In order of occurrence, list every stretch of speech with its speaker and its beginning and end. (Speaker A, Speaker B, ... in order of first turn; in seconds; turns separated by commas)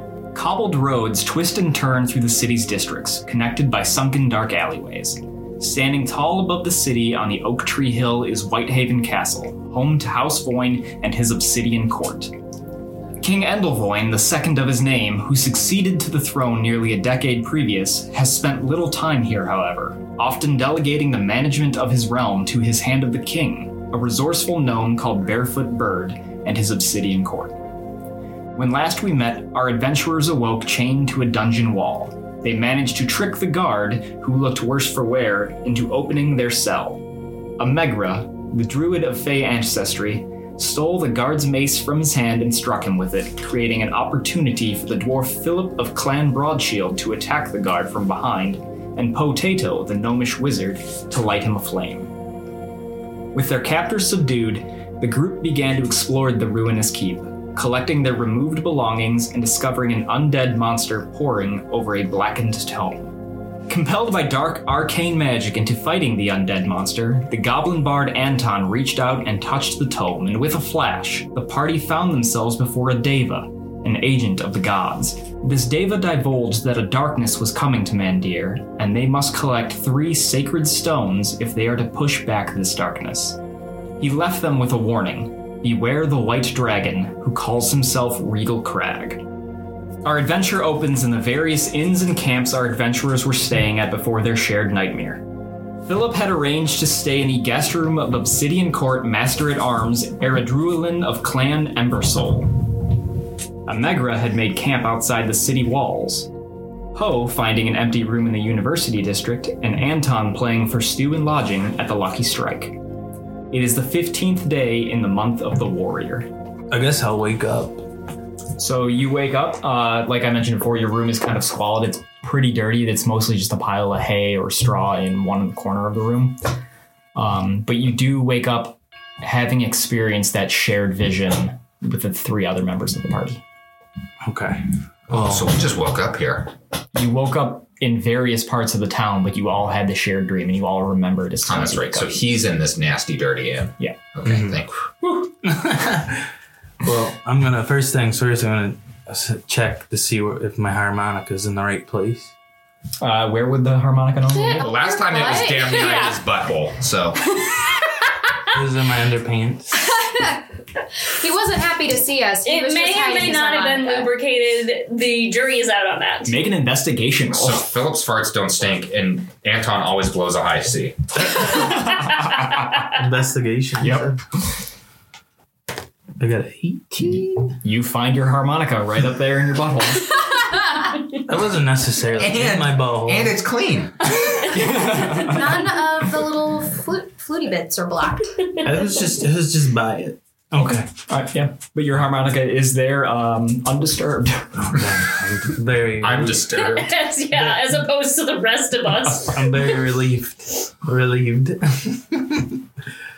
Speaker A: 0.3-12.3, Speaker A: 13.2-27.6, Speaker A: 28.5-37.0, Speaker A: 37.6-52.1, Speaker A: 53.3-63.1, Speaker A: 63.7-83.4, Speaker A: 84.0-89.2, Speaker A: 90.0-95.2, Speaker A: 95.8-102.6, Speaker A: 103.7-106.3, Speaker A: 106.9-112.8, Speaker A: 113.5-116.3, Speaker B: 116.7-117.8, Speaker A: 118.6-126.4, Speaker A: 127.1-133.4, Speaker B: 134.2-135.5, Speaker C: 135.1-136.5, Speaker A: 136.9-142.2, Speaker C: 141.4-144.8, Speaker B: 144.2-144.6, Speaker B: 145.4-146.3, Speaker B: 146.8-152.3, Speaker A: 153.0-154.7, Speaker D: 154.3-156.1, Speaker C: 154.6-157.4, Speaker E: 155.7-156.2, Speaker B: 158.5-159.9, Speaker D: 159.9-160.4, Speaker D: 161.0-164.1, Speaker E: 162.4-166.3, Speaker A: 166.2-167.6, Speaker C: 167.3-171.5, Speaker A: 171.4-172.9, Speaker B: 172.9-174.2, Speaker A: 173.8-174.5, Speaker B: 176.2-177.6, Speaker A: 177.6-180.2, Speaker B: 181.2-183.4, Speaker C: 182.2-184.2, Speaker A: 184.5-185.7, Speaker D: 185.1-188.6, Speaker B: 188.6-190.9, Speaker A: 190.6-194.6, Speaker B: 194.6-196.5, Speaker C: 196.0-196.9, Speaker E: 196.6-199.7, Speaker B: 199.1-202.6